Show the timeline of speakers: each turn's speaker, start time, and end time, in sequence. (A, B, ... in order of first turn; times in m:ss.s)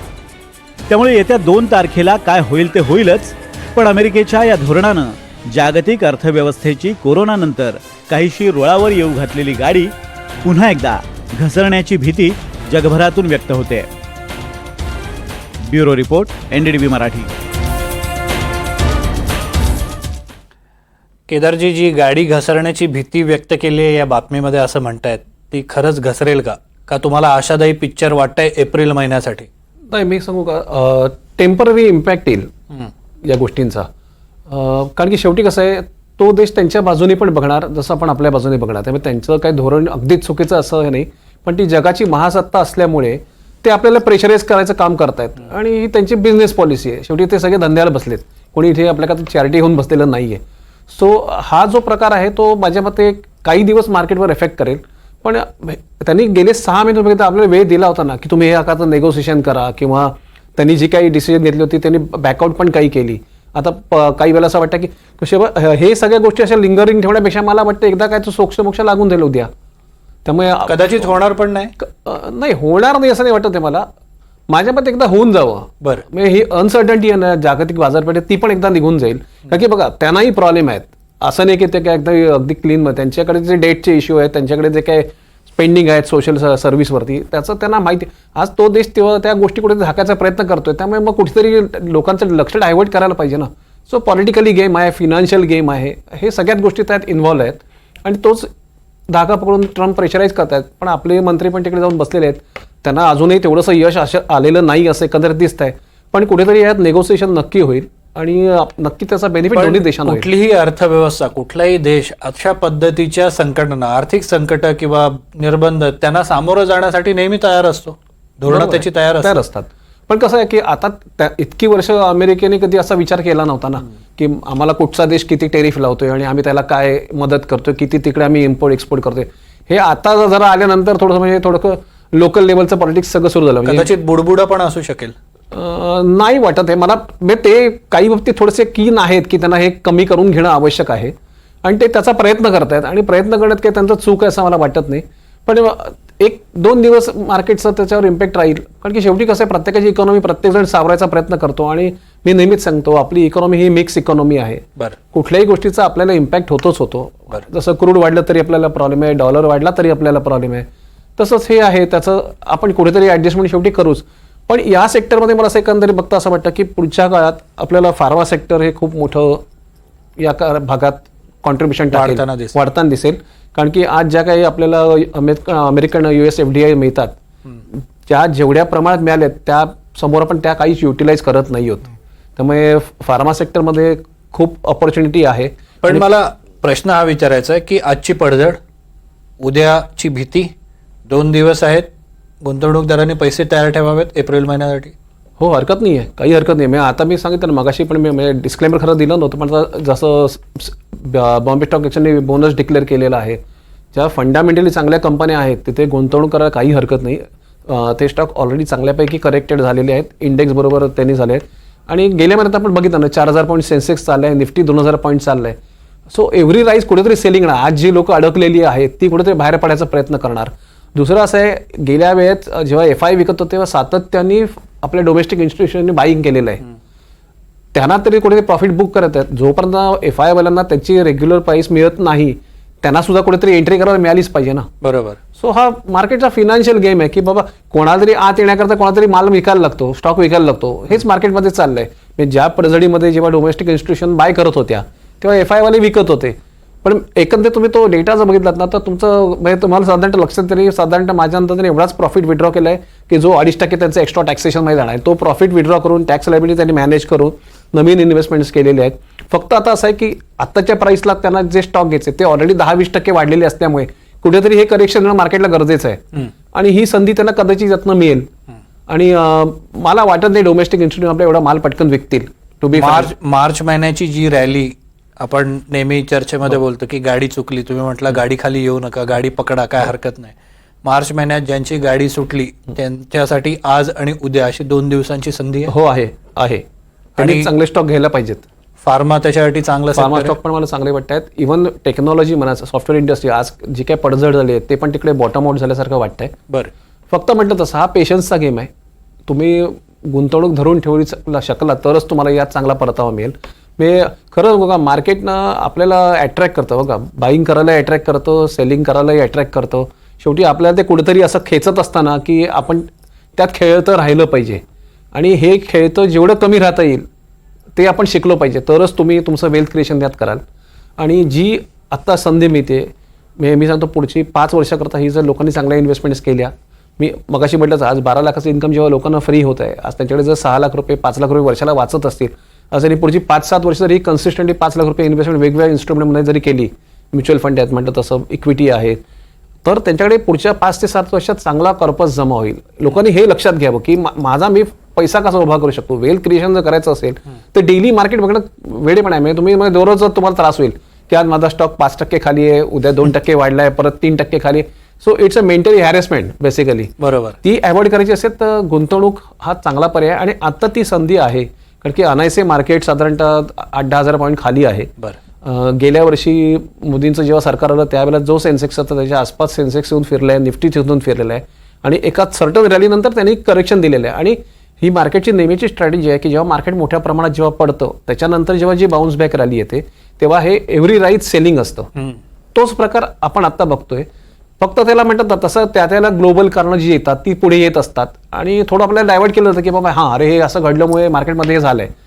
0:00.9-0:13.9 A
0:15.6-0:17.3 A
0:21.3-0:29.5 B
0:29.9-0:32.5 C
0:33.2-0:33.9 C
0:34.5-1:09.5 C
1:10.2-1:11.1 C
1:10.7-1:11.7 B
1:11.8-1:13.9 C
1:14.5-1:38.5 C
1:39.1-1:50.3 C
1:49.5-1:59.4 B
1:58.5-2:13.9 C
2:13.7-2:15.2 B
2:15.5-2:49.4 C
2:50.2-2:57.2 C
2:51.9-2:52.6 B
2:58.1-3:06.0 C
3:05.8-3:08.6 B
3:09.4-3:10.5 B
3:11.1-3:11.9 B
3:12.4-3:14.9 B
3:15.4-3:23.4 C
3:23.9-3:35.6 C
3:36.1-3:46.6 C
3:47.7-3:54.7 C
3:54.8-3:55.2 B
3:55.4-4:28.3 C
4:28.9-4:33.1 C
4:32.7-4:40.3 B
4:40.8-4:45.7 B
4:45.7-4:46.6 C
4:47.2-4:47.5 B
4:47.2-4:48.4 C
4:48.8-4:50.4 B
4:50.0-4:56.4 C
4:57.1-4:58.7 C
4:59.3-5:14.6 C
5:15.1-5:17.1 C
5:17.8-5:20.4 C
5:21.0-5:39.0 C
5:39.6-5:56.9 C
5:57.0-5:57.4 B
5:57.4-6:04.9 C
6:05.4-6:21.9 C
6:22.6-6:24.1 C
6:24.6-6:31.9 C